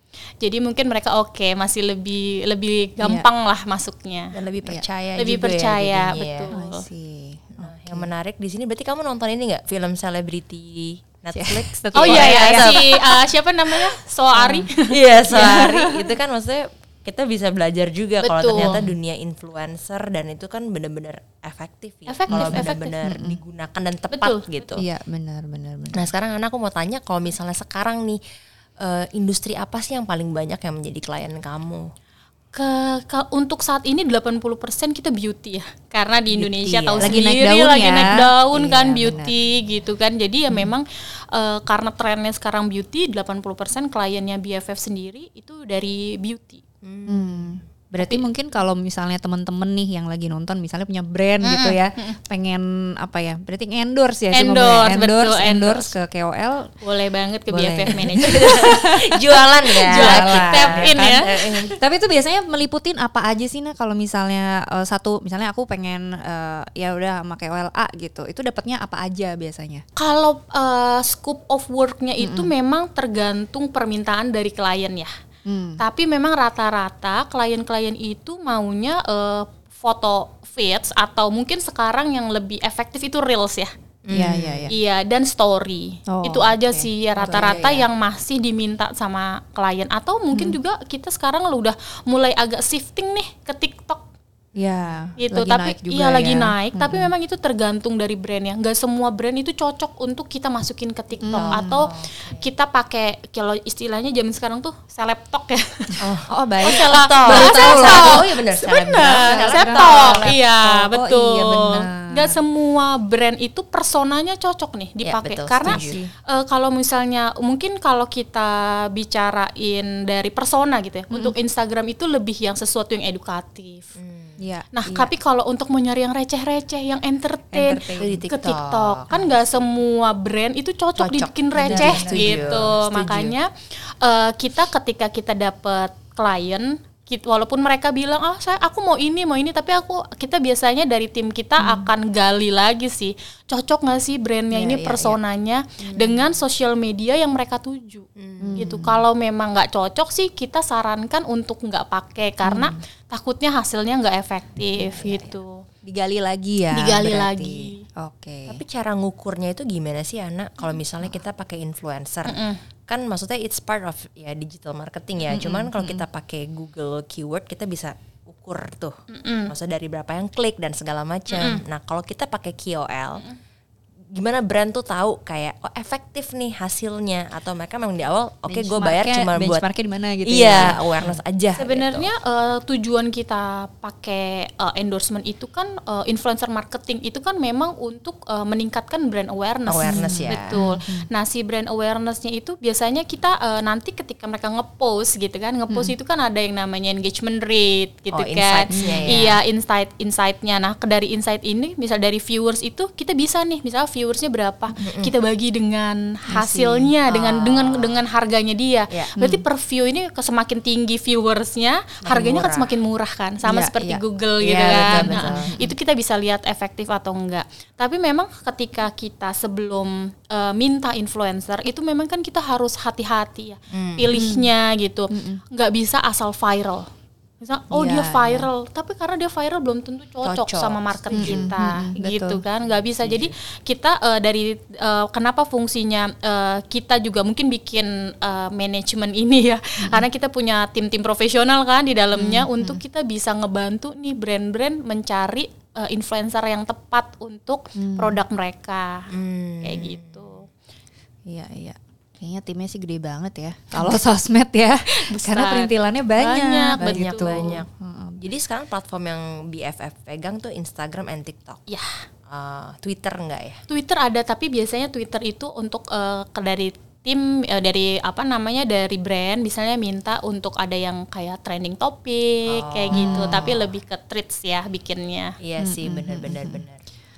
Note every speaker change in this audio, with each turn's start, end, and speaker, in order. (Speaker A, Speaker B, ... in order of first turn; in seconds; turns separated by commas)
Speaker A: 0.4-4.3, Speaker B: 3.0-3.2, Speaker C: 4.3-6.5, Speaker A: 5.2-6.8, Speaker B: 6.5-8.1, Speaker C: 7.6-13.1, Speaker B: 11.3-12.9, Speaker A: 11.9-15.7, Speaker B: 14.3-14.7, Speaker C: 14.9-24.8, Speaker B: 15.3-16.1, Speaker A: 18.2-18.8, Speaker B: 18.6-19.0, Speaker A: 22.1-23.0, Speaker B: 22.3-23.4, Speaker A: 24.1-24.4, Speaker B: 24.8-26.1, Speaker C: 25.9-28.2, Speaker C: 28.8-31.9, Speaker A: 32.5-46.6, Speaker B: 36.4-39.3, Speaker C: 46.8-47.5, Speaker B: 47.0-56.7, Speaker A: 51.4-52.2, Speaker A: 54.3-55.9, Speaker A: 56.8-58.7, Speaker B: 57.5-61.2, Speaker C: 57.9-61.7, Speaker A: 59.9-61.7, Speaker B: 61.8-69.8, Speaker A: 70.0-75.1, Speaker B: 72.2-72.5, Speaker B: 75.5-75.8, Speaker A: 75.8-83.7, Speaker C: 84.0-84.7, Speaker B: 84.1-84.7, Speaker A: 84.7-94.0, Speaker B: 86.1-87.8, Speaker C: 87.2-87.8, Speaker B: 94.5-97.1, Speaker A: 95.2-106.0, Speaker B: 101.2-101.8, Speaker C: 101.3-102.4, Speaker C: 106.0-110.3, Speaker B: 106.3-108.2, Speaker A: 106.6-123.9, Speaker B: 109.2-112.4, Speaker C: 115.0-116.0, Speaker B: 115.6-116.1, Speaker C: 124.0-124.4, Speaker B: 124.4-125.1, Speaker A: 124.7-155.6, Speaker B: 127.5-128.2, Speaker C: 128.0-129.3, Speaker C: 131.0-133.3, Speaker B: 131.5-132.7, Speaker B: 141.6-141.9, Speaker C: 144.5-145.2, Speaker C: 145.9-146.2, Speaker C: 148.2-148.6, Speaker B: 148.4-149.0, Speaker B: 152.4-152.8, Speaker B: 154.8-158.6, Speaker A: 156.7-157.8, Speaker C: 158.5-168.9, Speaker A: 162.2-162.6, Speaker B: 165.3-166.0, Speaker A: 169.1-169.5, Speaker C: 169.5-173.2, Speaker A: 171.3-171.6, Speaker C: 174.1-179.6, Speaker B: 178.5-181.2, Speaker C: 180.2-182.1, Speaker A: 181.6-226.9, Speaker C: 189.7-190.6, Speaker B: 189.8-191.1, Speaker C: 198.1-199.4, Speaker B: 198.7-199.3, Speaker C: 204.8-205.1, Speaker B: 206.3-206.9, Speaker C: 207.1-208.0, Speaker B: 209.2-209.4, Speaker C: 212.1-212.7, Speaker B: 213.4-214.0, Speaker C: 214.4-215.5, Speaker B: 214.8-215.7, Speaker C: 223.7-224.1, Speaker B: 224.1-224.5, Speaker B: 225.1-225.4, Speaker A: 227.4-249.1, Speaker B: 227.7-228.5, Speaker C: 230.2-231.5, Speaker B: 231.1-232.4, Speaker C: 233.0-233.3, Speaker B: 242.1-242.8, Speaker B: 247.8-248.2, Speaker C: 249.1-250.2, Speaker A: 249.6-250.5, Speaker B: 251.2-258.2, Speaker A: 254.9-257.6, Speaker C: 256.8-261.6, Speaker C: 262.3-263.6, Speaker A: 263.7-275.3, Speaker C: 272.5-273.6, Speaker B: 272.9-273.5, Speaker C: 275.4-276.8, Speaker B: 275.6-276.6